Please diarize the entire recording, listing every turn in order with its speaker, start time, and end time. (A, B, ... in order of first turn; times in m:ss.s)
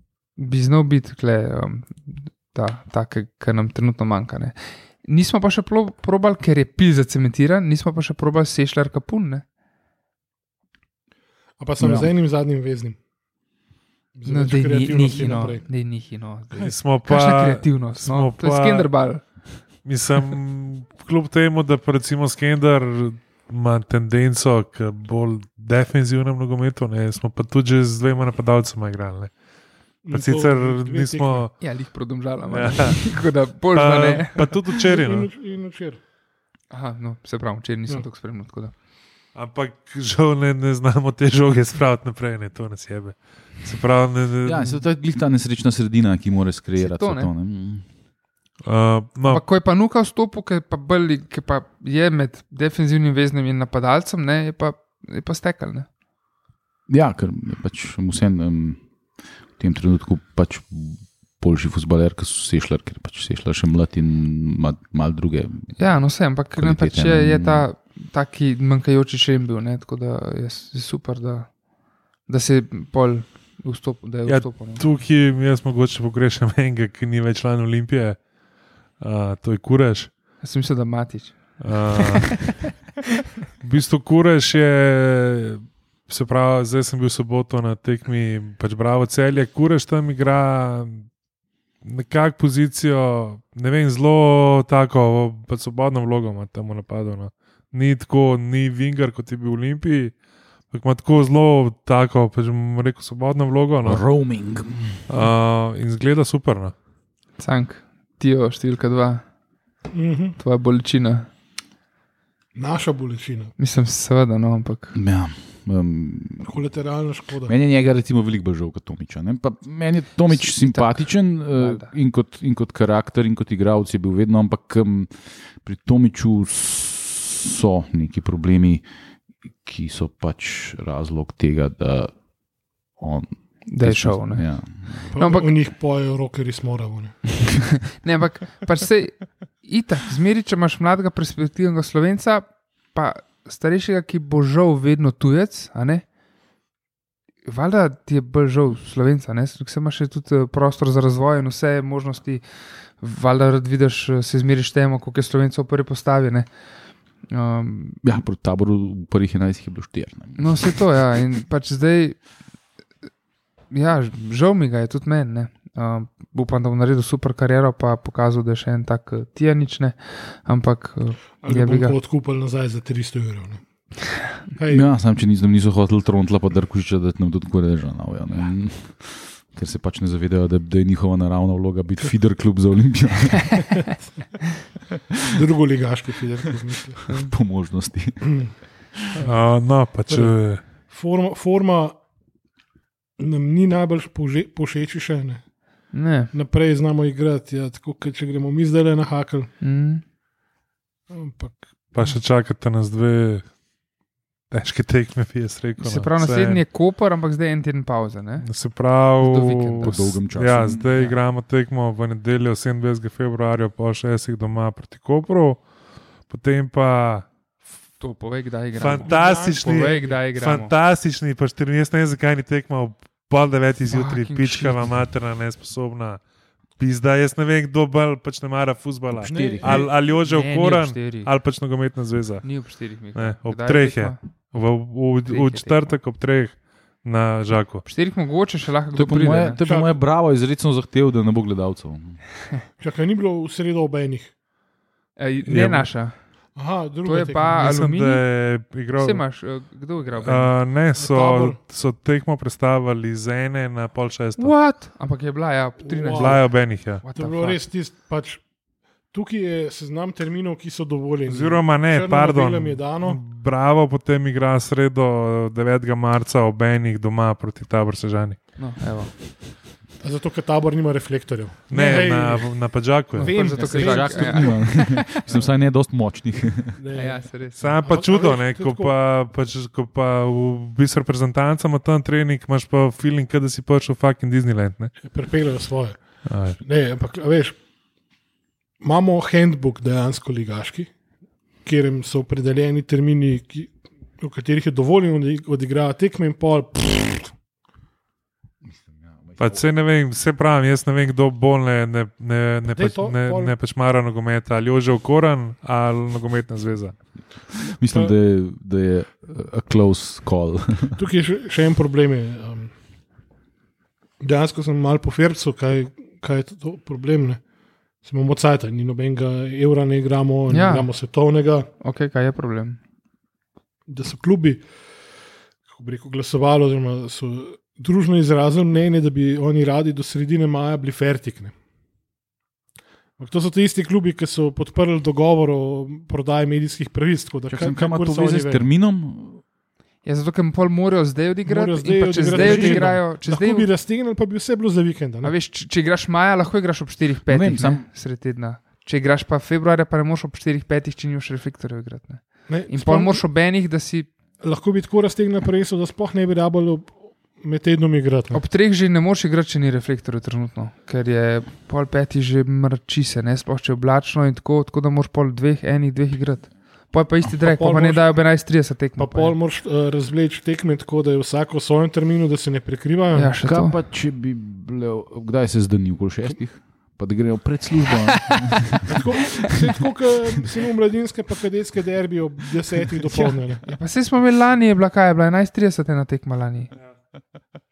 0:00.4-0:09.4 A
0:11.6-0:13.0 B
0:11.8-0:12.1 C
0:14.2-0:15.7 B
0:14.3-0:19.5 A
0:16.5-0:19.2 D
0:19.8-0:29.3 D
0:30.0-0:31.5 B
0:30.1-0:31.6 D
0:31.6-0:34.6 A
0:32.5-0:33.2 D
0:33.7-0:35.3 D
0:34.8-0:36.0 B
0:36.7-0:38.7 A
0:39.4-0:44.8 D
0:44.4-0:47.8 C
0:46.8-0:47.3 A
0:48.6-0:49.4 D
0:49.3-0:55.9 A
0:56.9-0:58.8 C
0:59.6-1:05.8 C
1:05.8-1:11.6 A
1:06.6-1:07.7 C
1:12.3-1:14.8 A
1:14.3-1:18.2 D
1:19.0-1:20.1 D
1:20.4-1:22.6 A
1:21.6-1:22.6 D
1:23.6-1:31.1 D
1:31.8-1:40.2 D
1:40.7-1:44.0 D
1:43.8-1:44.9 C
1:45.1-1:46.7 D
1:47.4-1:49.2 A
1:49.9-1:50.4 B
1:50.4-1:51.3 A
1:52.6-1:53.5 B
1:53.6-1:55.0 A
1:54.9-1:56.5 C
1:56.4-1:57.5 B
1:57.5-2:08.8 C
2:00.3-2:01.9 A
2:09.6-2:12.1 C
2:13.0-2:15.1 C
2:13.7-2:15.5 A
2:15.1-2:17.2 B
2:17.8-2:26.0 A
2:27.4-2:36.5 A
2:37.3-2:38.0 A
2:38.0-2:40.8 C
2:40.4-2:42.3 A
2:43.7-2:52.0 A
2:51.4-2:53.6 B
2:54.5-2:54.9 B
2:54.7-3:03.8 C
3:05.3-3:07.0 B
3:07.1-3:08.7 C
3:09.2-3:10.6 D
3:10.1-3:12.0 B
3:13.2-3:15.4 B
3:15.9-3:16.3 A
3:16.3-3:19.5 B
3:19.6-3:20.0 A
3:21.1-3:21.7 B
3:21.9-3:23.5 D
3:24.5-3:26.6 D
3:25.8-3:28.5 A
3:28.4-3:35.6 D
3:29.2-3:30.2 A
3:29.8-3:30.9 C
3:30.9-3:31.2 A
3:36.3-3:37.3 D
3:38.0-3:40.7 A
3:38.8-3:46.2 D
3:39.0-3:40.2 B
3:43.9-3:44.9 A
3:46.8-3:52.5 D
3:49.2-3:49.9 B
3:49.3-3:49.9 C
3:50.1-3:51.3 A
3:52.4-3:54.2 A
3:53.1-3:57.8 D
3:55.3-3:55.9 A
3:57.8-3:59.6 A
3:59.0-4:02.2 C
3:59.6-4:00.0 B
4:02.8-4:04.3 B
4:05.2-4:06.2 A
4:05.5-4:05.9 D
4:06.6-4:07.9 B
4:07.0-4:08.2 A
4:07.6-4:09.2 D
4:09.0-4:10.5 A
4:10.2-4:14.5 D
4:11.0-4:11.6 B
4:14.4-4:17.6 A
4:15.8-4:18.4 B
4:16.1-4:17.0 D
4:19.1-4:23.2 B
4:21.3-4:28.4 D
4:28.6-4:29.1 A
4:30.0-4:32.5 B
4:31.7-4:33.7 D
4:31.7-4:32.3 A
4:33.1-4:34.8 B
4:33.2-4:35.2 A
4:33.6-4:36.8 C
4:36.8-4:38.9 B
4:36.9-4:37.7 A
4:37.6-4:45.0 D
4:45.0-4:46.0 B
4:46.2-4:46.6 D
4:46.6-4:47.6 B
4:48.8-4:50.9 B
4:51.6-4:57.3 B
4:58.7-4:59.6 C
4:59.4-5:07.0 D
5:02.7-5:03.5 B
5:07.6-5:11.0 C
5:11.0-5:12.8 B
5:14.2-5:17.4 B
5:18.0-5:21.7 B
5:20.5-5:20.9 A
5:21.8-5:22.8 A
5:23.9-5:24.7 B
5:25.7-5:31.6 B
5:33.2-5:38.6 B
5:37.5-5:39.4 C
5:40.0-5:43.7 A
5:41.4-5:45.3 B
5:42.3-5:42.9 C
5:45.2-5:54.1 A
5:47.3-5:47.9 C
5:52.5-5:53.2 B
5:54.4-5:58.4 B
5:58.3-6:09.4 A
6:07.4-6:08.2 B
6:09.0-6:13.4 B
6:13.1-6:13.8 A
6:13.4-6:18.8 C
6:18.3-6:18.7 A
6:18.9-6:23.7 B
6:23.1-6:26.7 A